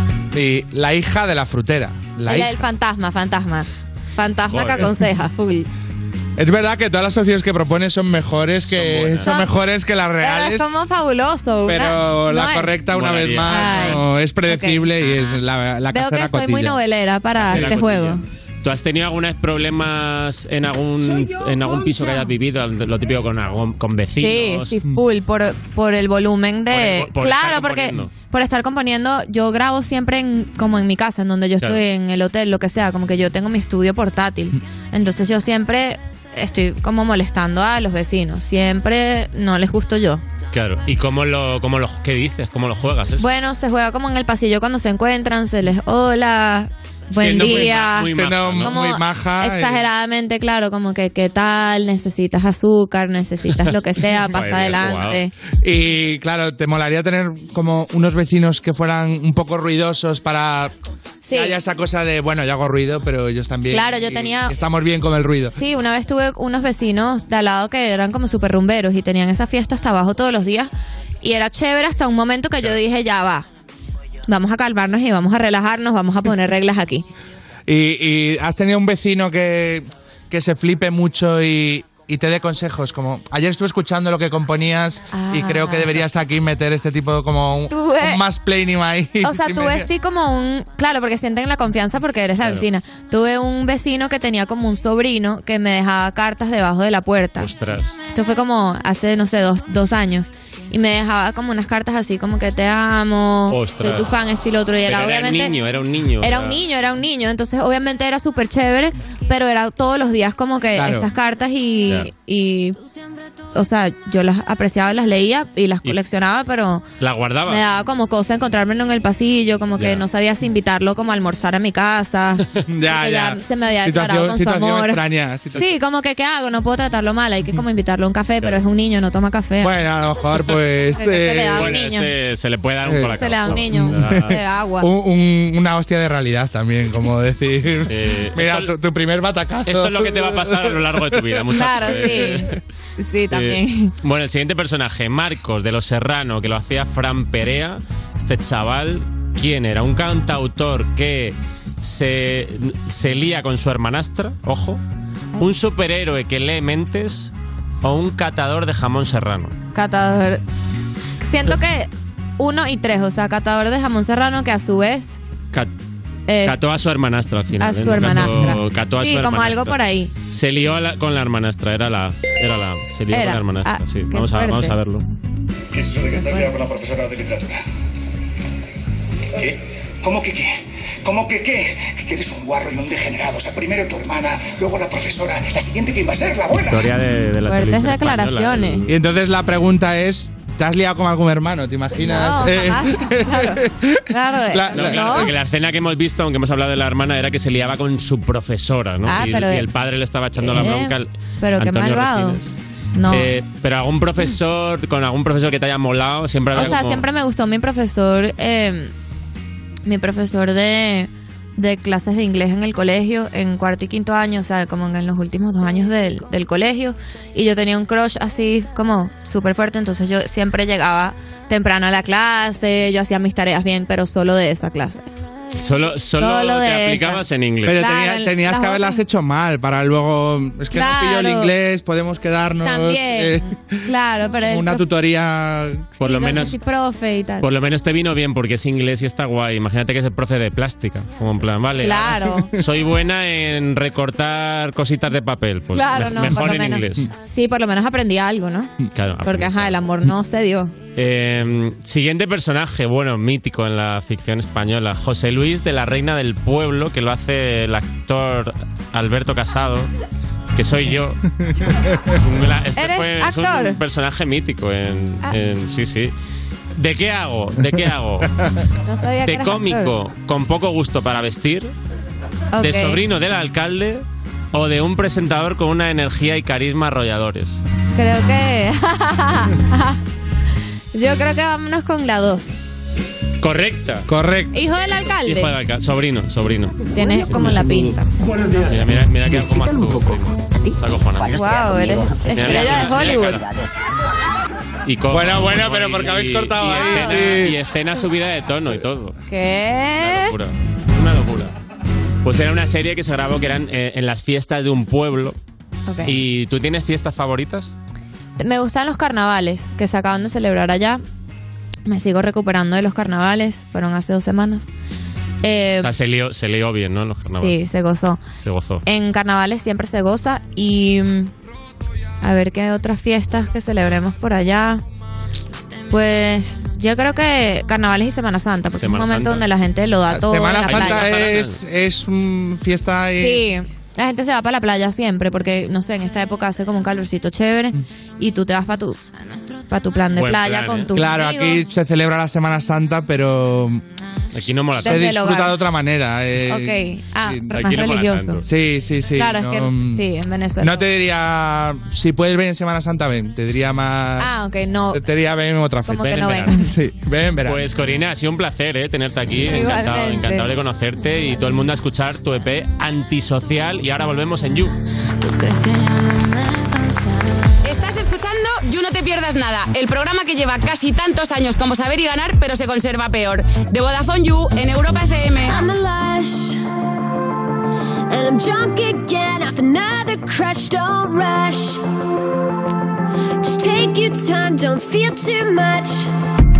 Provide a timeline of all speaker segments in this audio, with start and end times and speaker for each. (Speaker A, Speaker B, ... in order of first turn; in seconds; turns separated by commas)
Speaker A: 0.3-2.6, Speaker B: 2.2-5.7, Speaker C: 4.5-4.9, Speaker A: 6.4-10.6, Speaker C: 8.7-9.4, Speaker B: 10.2-12.8, Speaker A: 11.7-16.8, Speaker C: 12.8-14.0, Speaker B: 13.4-14.8, Speaker B: 15.9-18.2, Speaker C: 17.4-24.8, Speaker A: 17.5-17.8, Speaker B: 24.2-40.2, Speaker C: 26.7-28.1, Speaker C: 40.5-43.3, Speaker B: 43.2-55.3, Speaker C: 47.1-48.8, Speaker A: 47.2-49.8, Speaker C: 54.1-55.2, Speaker A: 55.6-60.7, Speaker B: 61.2-61.6, Speaker A: 61.3-65.6, Speaker B: 63.7-64.5, Speaker B: 65.6-70.7, Speaker B: 71.2-73.5, Speaker B: 74.3-77.0, Speaker A: 77.7-89.9, Speaker B: 85.1-86.0, Speaker B: 87.7-88.2, Speaker B: 89.2-97.5, Speaker C: 92.4-92.7, Speaker C: 97.4-97.9, Speaker B: 98.1-105.5, Speaker C: 103.5-104.2, Speaker C: 104.8-106.6, Speaker B: 106.2-112.8, Speaker A: 110.7-111.1, Speaker C: 111.8-112.1, Speaker B: 113.5-116.8, Speaker C: 117.0-117.6, Speaker B: 117.5-125.0, Speaker C: 119.8-120.0, Speaker A: 122.7-125.6, Speaker B: 125.5-129.7, Speaker A: 129.6-131.8, Speaker B: 130.9-132.1, Speaker C: 131.5-134.4, Speaker A: 132.8-142.3, Speaker B: 133.1-134.9, Speaker C: 137.9-138.7, Speaker C: 139.7-142.6, Speaker B: 141.5-143.9, Speaker C: 143.3-154.8, Speaker C: 155.4-157.3, Speaker C: 157.8-159.5, Speaker B: 159.7-160.4, Speaker B: 161.2-165.2, Speaker B: 166.3-166.6, Speaker C: 166.4-169.8, Speaker B: 167.6-170.1, Speaker C: 170.3-175.0, Speaker B: 173.1-174.7, Speaker D: 175.7-177.6, Speaker D: 179.3-186.9, Speaker C: 186.5-188.9, Speaker B: 187.5-188.8, Speaker A: 188.9-195.3, Speaker B: 192.0-195.3, Speaker C: 194.7-202.5, Speaker B: 199.0-199.7, Speaker B: 200.3-202.4, Speaker B: 202.9-203.3, Speaker C: 203.1-207.1, Speaker B: 206.5-208.9, Speaker B: 209.8-225.1, Speaker C: 225.5-227.9, Speaker B: 226.2-227.2, Speaker A: 227.7-233.8, Speaker B: 227.7-229.0, Speaker B: 230.7-231.5, Speaker B: 232.6-234.8, Speaker A: 234.5-235.9, Speaker C: 236.0-236.6, Speaker B: 236.0-237.5, Speaker C: 237.4-247.1, Speaker B: 241.8-242.5, Speaker B: 245.7-250.7, Speaker C: 248.9-249.8, Speaker C: 250.9-259.9, Speaker C: 260.5-261.2, Speaker C: 262.2-266.1, Speaker B: 262.8-263.8, Speaker C: 266.8-268.3, Speaker B: 268.9-269.9, Speaker C: 269.2-271.7, Speaker B: 272.5-273.0, Speaker C: 272.6-277.6, Speaker B: 277.9-280.0, Speaker B: 280.9-282.5, Speaker C: 283.4-284.1, Speaker A: 284.1-284.5, Speaker B: 284.5-285.5, Speaker C: 285.0-287.9, Speaker B: 286.9-288.1, Speaker C: 288.6-293.4, Speaker B: 291.3-293.4, Speaker C: 294.9-299.1, Speaker A: 295.1-297.6, Speaker B: 296.8-297.1, Speaker B: 299.3-300.3, Speaker C: 300.0-301.5, Speaker C: 302.2-305.4, Speaker B: 305.9-306.1, Speaker C: 306.0-307.7, Speaker B: 308.4-311.0, Speaker B: 311.9-314.7, Speaker B: 315.4-315.9, Speaker C: 315.8-317.6, Speaker B: 317.4-318.2, Speaker C: 318.4-318.8, Speaker B: 318.9-321.3, Speaker B: 322.2-324.8, Speaker B: 325.9-331.1, Speaker C: 328.8-329.5, Speaker A: 330.1-333.4, Speaker C: 330.6-331.6, Speaker B: 333.2-339.0, Speaker B: 339.7-341.6, Speaker C: 340.1-340.9, Speaker A: 340.9-343.8, Speaker C: 344.3-345.2, Speaker A: 344.8-347.6, Speaker B: 344.8-345.6, Speaker B: 346.5-348.4, Speaker C: 347.5-348.4, Speaker A: 348.4-350.0, Speaker B: 349.1-350.9, Speaker A: 350.6-354.3, Speaker B: 354.2-355.0, Speaker A: 354.9-357.6, Speaker B: 355.9-356.7, Speaker C: 355.9-356.5, Speaker C: 357.4-364.8, Speaker B: 359.3-360.5, Speaker E: 365.2-366.0, Speaker F: 367.6-375.6, Speaker E: 375.5-376.6, Speaker E: 378.1-381.8, Speaker E: 383.4-386.1